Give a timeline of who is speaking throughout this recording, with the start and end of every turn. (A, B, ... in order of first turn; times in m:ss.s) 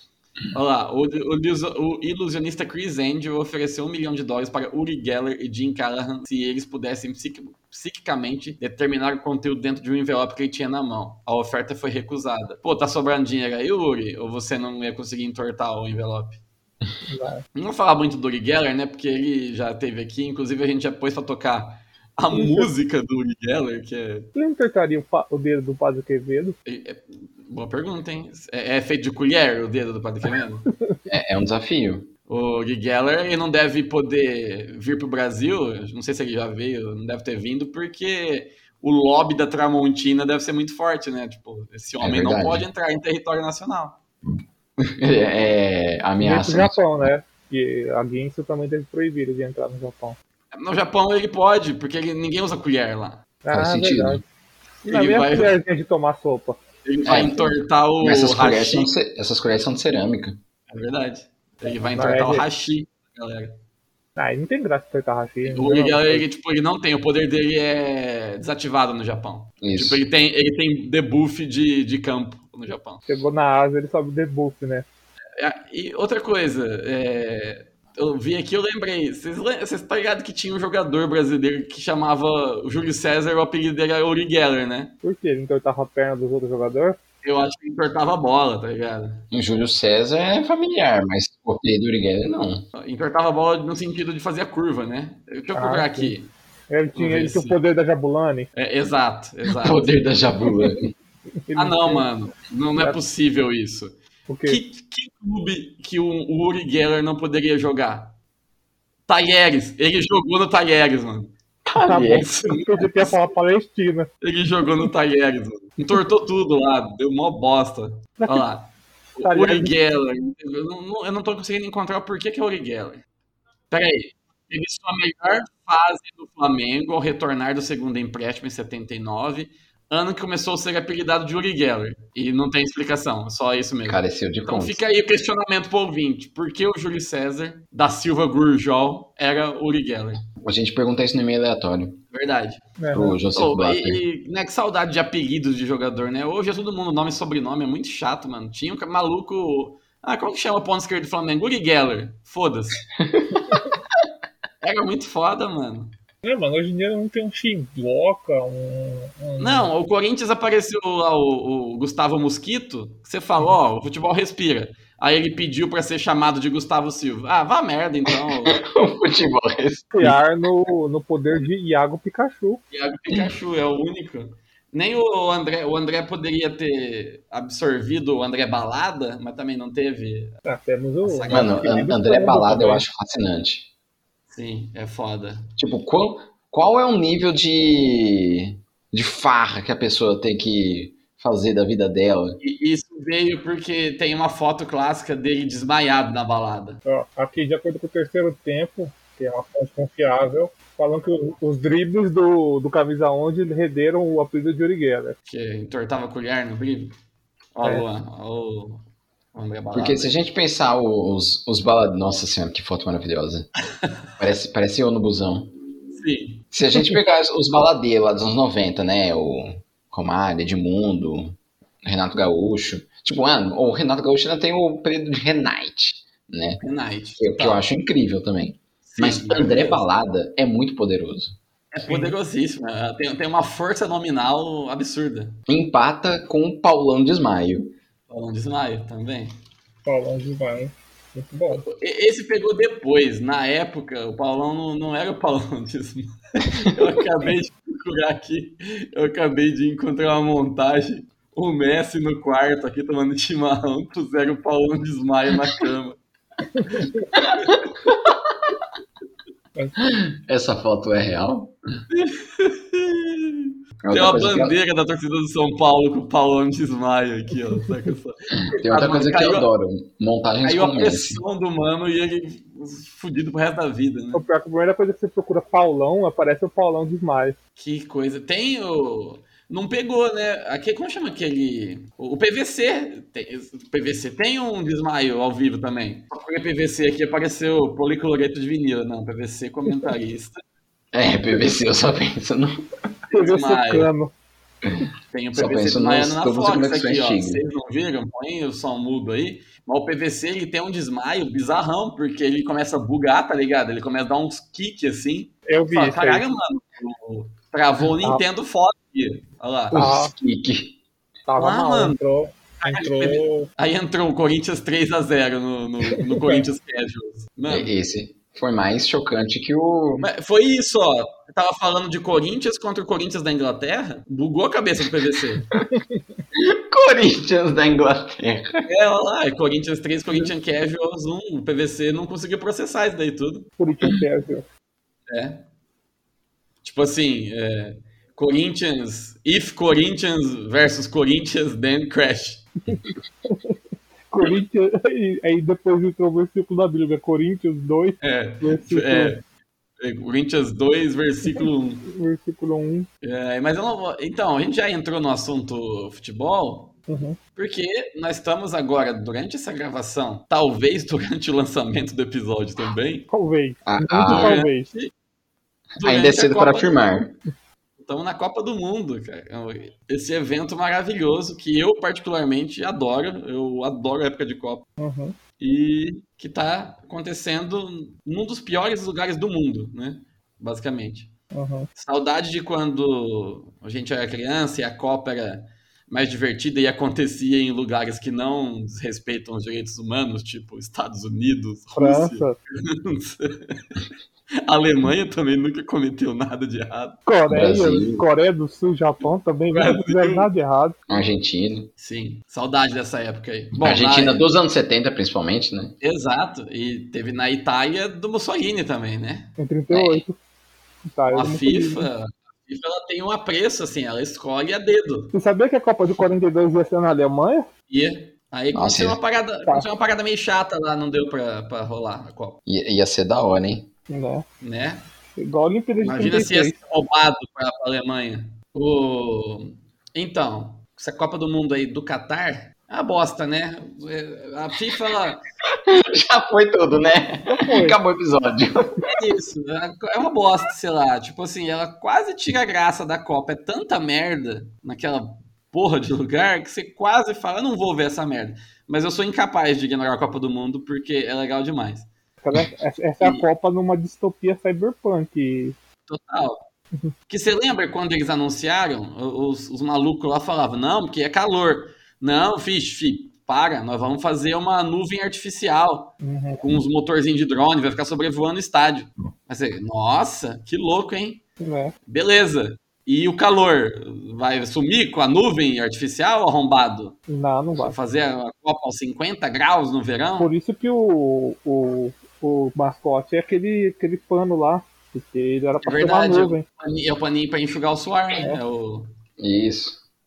0:00.5-0:16.4 A
0:17.1-0:17.4 B
0:17.5-0:24.3 A
0:22.3-0:22.7 B
0:24.3-0:26.5 B
0:26.6-0:30.6 A
0:31.1-0:32.1 C
0:32.3-0:44.0 A
0:42.0-0:42.6 C
0:44.8-0:47.0 C
0:46.2-0:50.2 B
0:50.5-0:53.2 A
0:53.4-0:54.2 B
0:53.5-0:54.2 C
0:54.8-0:56.6 B
0:54.9-0:55.6 A
0:56.8-0:58.9 A
0:57.0-1:00.4 C
1:00.7-1:03.6 A
1:02.0-1:02.4 B
1:04.2-1:06.2 B
1:05.4-1:13.0 A
1:09.6-1:10.0 C
1:13.1-1:14.8 B
1:15.4-1:24.9 A
1:25.0-1:27.0 B
1:27.2-1:29.2 A
1:29.3-1:32.6 C
1:32.8-1:36.3 A
1:35.5-1:36.1 B
1:36.7-1:38.5 B
1:36.9-1:37.6 A
1:38.5-1:40.1 A
1:39.5-1:40.9 C
1:41.5-1:42.0 B
1:41.5-1:43.9 A
1:44.3-1:44.6 B
1:44.4-1:48.1 A
1:49.1-1:51.3 A
1:51.6-1:52.6 C
1:51.8-1:54.1 B
1:51.9-1:53.0 A
1:54.2-2:03.0 A
1:58.2-1:58.4 B
1:59.2-1:59.7 B
2:03.7-2:20.2 A
2:13.8-2:14.8 C
2:20.3-2:22.0 C
2:22.1-2:22.6 A
2:22.8-2:23.2 B
2:22.9-2:24.0 C
2:23.3-2:32.8 A
2:33.0-2:33.6 C
2:34.6-2:35.9 A
2:36.2-2:39.7 B
2:39.4-2:48.6 A
2:48.1-2:50.2 C
2:49.9-2:52.6 B
2:52.7-3:00.4 A
2:53.1-2:53.3 C
3:00.4-3:02.8 B
3:01.0-3:01.7 A
3:01.3-3:03.7 C
3:04.3-3:05.5 A
3:05.6-3:12.4 C
3:12.4-3:16.8 A
3:16.8-3:25.2 B
3:25.3-3:26.9 A
3:27.6-3:28.8 A
3:29.3-3:30.1 A
3:29.7-3:33.5 C
3:34.2-3:35.5 C
3:35.9-3:36.4 A
3:36.5-3:46.6 C
3:46.6-3:47.6 A
3:47.2-3:51.4 C
3:48.8-3:49.8 A
3:51.7-3:55.4 A
3:51.8-3:52.1 B
3:55.5-3:57.7 C
3:58.1-3:59.3 A
3:59.8-4:01.6 B
4:01.5-4:16.0 A
4:16.6-4:17.0 B
4:17.2-4:17.6 C
4:19.8-4:21.6 C
4:21.9-4:29.5 A
4:23.8-4:24.6 C
4:28.5-4:31.2 C
4:30.4-4:34.2 A
4:34.1-4:37.4 B
4:37.6-4:50.3 A
4:50.9-4:52.6 C
4:53.1-4:54.1 B
4:53.1-4:53.9 A
4:55.1-5:09.8 A
4:55.3-4:57.4 C
5:05.5-5:06.2 B
5:09.7-5:10.8 C
5:09.7-5:10.1 B
5:11.3-5:13.5 B
5:11.4-5:12.0 A
5:12.6-5:17.7 A
5:16.0-5:16.4 B
5:17.5-5:20.1 C
5:20.0-5:25.4 A
5:26.3-5:28.7 C
5:28.7-5:33.5 A
5:33.6-5:34.4 B
5:35.1-5:35.4 A
5:36.6-5:42.4 A
5:42.7-5:43.6 B
5:44.1-5:49.2 B
5:48.0-5:49.2 A
5:49.8-5:51.8 A
5:51.3-5:52.9 B
5:53.0-5:56.7 A
5:56.9-5:57.2 B
5:57.4-6:03.1 A
6:03.1-6:04.7 B
6:03.6-6:04.4 C
6:04.0-6:04.9 A
6:05.8-6:06.8 A
6:05.8-6:07.2 C
6:07.8-6:14.7 A
6:14.8-6:15.2 B
6:15.4-6:21.1 A
6:21.3-6:21.7 B
6:21.8-6:33.8 A
6:31.8-6:32.4 B
6:34.4-6:37.0 A
6:37.1-6:40.8 B
6:37.3-6:38.1 C
6:39.5-6:40.3 A
6:40.9-6:41.7 C
6:41.8-6:44.2 A
6:43.6-6:45.7 C
6:45.8-6:50.0 A
6:49.4-6:50.2 B
6:50.9-6:51.9 B
6:51.1-6:55.1 A
6:55.1-6:57.5 B
6:57.7-7:02.4 A
6:58.5-6:59.0 C
7:02.4-7:03.7 C
7:03.9-7:04.2 B
7:04.4-7:04.8 A
7:05.2-7:06.5 B
7:05.8-7:15.2 A
7:15.7-7:18.8 C
7:17.3-7:17.8 B
7:18.9-7:31.9 A
7:32.2-7:35.6 B
7:35.9-7:36.4 A
7:37.1-7:51.2 A
7:46.0-7:46.4 B
7:51.4-7:51.7 B
7:51.9-7:57.0 A
7:57.1-7:57.7 B
7:57.6-8:00.3 A
8:00.2-8:06.4 B
8:05.6-8:08.9 A
8:09.2-8:09.8 C